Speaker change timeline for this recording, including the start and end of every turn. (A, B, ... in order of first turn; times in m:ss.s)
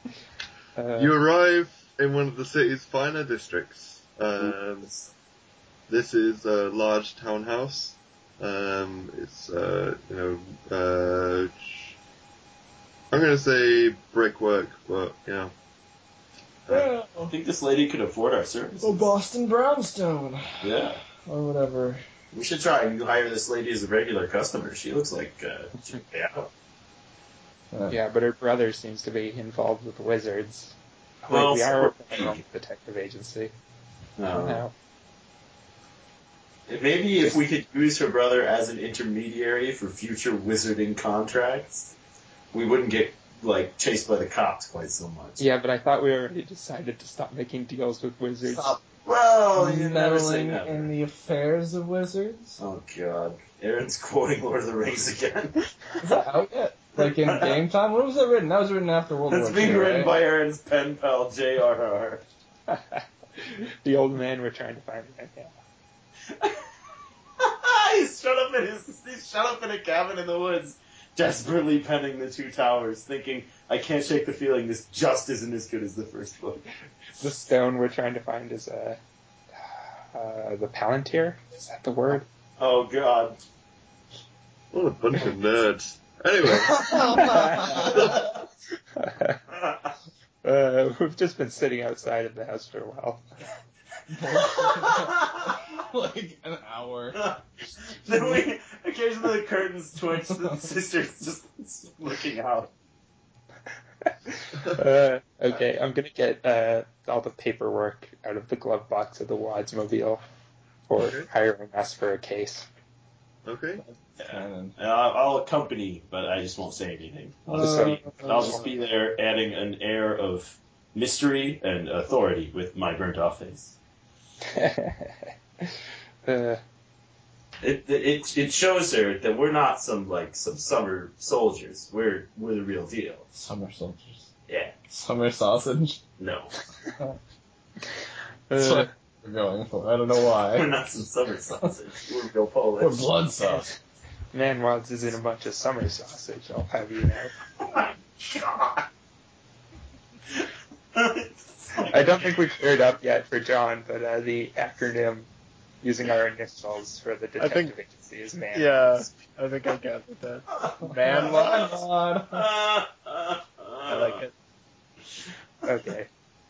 0:00.8-0:01.2 A
0:01.0-0:04.9 B
0:04.4-0:05.1 C
0:05.9-0:12.0 B
0:13.1-0:15.5 B
0:16.7-0:17.3 D
0:17.3-0:19.1 C
0:18.8-0:22.0 D
0:20.6-0:21.0 C
0:22.3-0:26.5 C
0:27.7-0:28.0 D
0:27.9-0:33.5 A
0:31.3-0:32.4 C
0:34.2-0:34.6 C
0:34.3-0:34.7 A
0:36.7-0:41.9 C
0:42.5-0:45.4 C
0:45.4-0:48.8 A
0:48.5-0:48.8 D
0:49.0-0:50.9 C
0:49.6-0:52.6 D
0:52.6-0:55.7 C
0:56.0-1:00.1 D
0:57.0-0:57.6 C
0:59.3-1:02.2 C
1:02.7-1:05.5 A
1:06.4-1:06.6 C
1:07.4-1:16.7 C
1:17.2-1:19.0 A
1:20.1-1:22.2 A
1:22.6-1:23.4 C
1:24.7-1:28.2 B
1:26.8-1:27.9 D
1:27.1-1:28.0 A
1:27.2-1:28.3 C
1:29.0-1:29.4 A
1:30.4-1:33.2 A
1:34.1-1:37.2 D
1:34.3-1:35.6 C
1:37.2-1:42.7 C
1:44.1-1:50.2 A
1:44.6-1:44.8 B
1:50.9-1:52.7 A
1:51.0-1:51.3 B
1:53.4-1:53.8 B
1:53.8-1:54.8 D
1:54.2-2:03.8 C
1:57.5-1:58.7 D
1:57.5-1:58.7 A
2:04.5-2:05.7 A
2:06.2-2:06.6 A
2:07.6-2:13.2 C
2:13.3-2:14.3 D
2:14.5-2:14.8 C
2:14.9-2:16.0 D
2:16.2-2:16.5 C
2:18.5-2:18.9 A
2:18.5-2:20.7 D
2:20.5-2:23.1 C
2:22.8-2:23.7 D
2:24.3-2:27.3 A
2:27.6-2:28.9 C
2:30.3-2:32.4 C
2:31.9-2:35.3 A
2:35.8-2:39.1 A
2:37.4-2:37.7 E
2:38.5-2:41.8 E
2:40.6-2:44.2 C
2:40.8-2:42.5 D
2:43.9-2:44.3 E
2:45.6-2:46.1 A